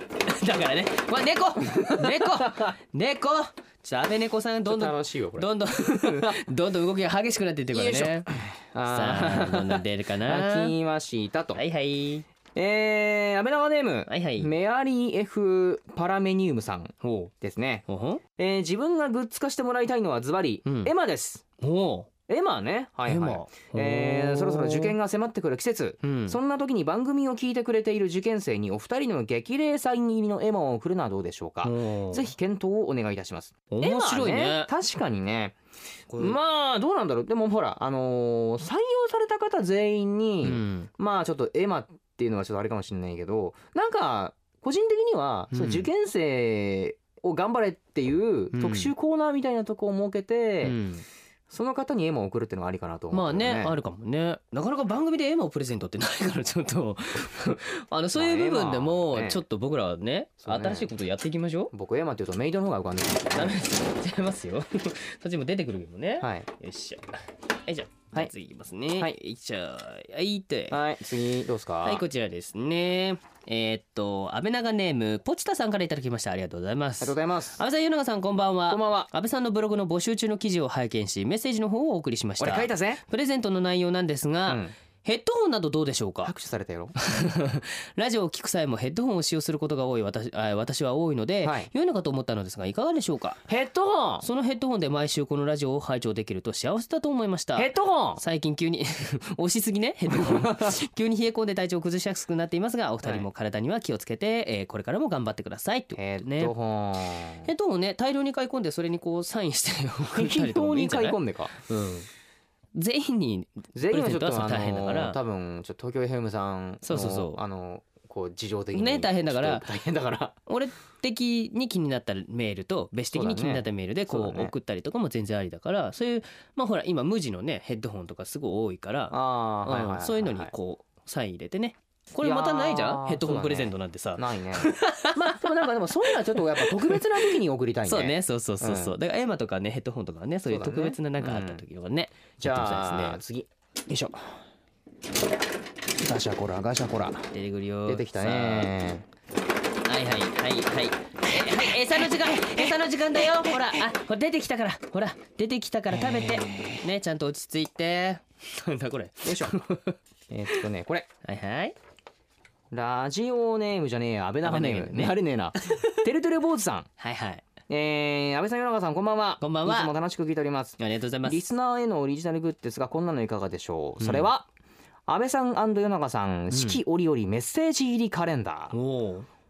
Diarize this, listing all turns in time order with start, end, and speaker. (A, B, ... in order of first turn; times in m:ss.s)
0:00.3-0:08.3 A
0:02.0-0:02.7 B
0:04.6-0:06.4 B
0:07.7-0:11.6 B
0:08.9-0:10.7 A
0:11.5-0:12.3 A
0:12.5-0:17.9 B
0:14.1-0:14.5 A
0:17.0-0:17.3 A
0:17.9-0:18.2 A
0:18.4-0:21.4 B
0:20.6-0:20.9 A
0:21.6-0:22.1 A
0:22.3-0:35.6 B
0:23.1-0:25.0 A
0:26.0-0:26.4 A
0:31.6-0:32.3 A
0:33.7-0:34.7 A
0:36.1-0:36.4 A
0:36.2-0:50.8 B
0:40.4-0:40.9 A
0:45.5-0:45.9 A
0:48.5-0:48.9 A
0:50.6-0:51.0 A
0:51.5-0:53.8 B
0:53.1-1:01.7 A
0:58.1-0:59.4 B
1:00.4-1:00.9 B
1:01.7-1:03.6 B
1:03.3-1:07.1 A
1:06.2-1:06.5 B
1:07.6-1:10.8 A
1:10.7-1:12.0 B
1:11.8-1:26.3 A
1:17.0-1:17.6 B
1:18.7-1:19.1 B
1:22.4-1:23.0 B
1:24.5-1:24.7 B
1:26.2-1:27.0 B
1:27.0-1:33.4 A
1:31.4-1:31.7 B
1:33.5-1:34.2 B
1:34.2-1:46.5 A
1:37.5-1:38.2 B
1:40.1-1:40.8 B
1:46.0-1:47.5 B
1:47.4-1:52.1 A
1:50.1-1:51.5 B
1:52.8-1:55.2 A
1:53.8-2:00.4 B
1:56.8-1:57.4 A
1:58.7-1:59.7 A
2:00.5-2:15.4 A
2:03.1-2:04.5 B
2:09.1-2:10.5 B
2:12.2-2:18.9 B
2:16.3-2:17.0 A
2:17.9-2:23.2 A
2:20.5-2:21.6 B
2:22.4-2:24.4 B
2:26.0-2:27.3 B
2:27.3-2:28.7 A
2:27.9-2:29.0 B
2:29.8-2:40.0 A
2:35.9-2:36.8 B
2:39.2-2:39.6 B
2:40.3-2:41.1 B
2:41.2-2:41.8 A
2:42.7-2:46.9 B
2:44.4-2:46.0 A
2:47.0-2:47.5 A
2:47.7-2:54.5 B
2:49.4-2:49.9 A
2:50.8-2:51.4 A
2:54.0-2:54.3 A
2:55.1-2:58.8 B
2:56.5-2:56.8 A
2:58.7-2:59.3 A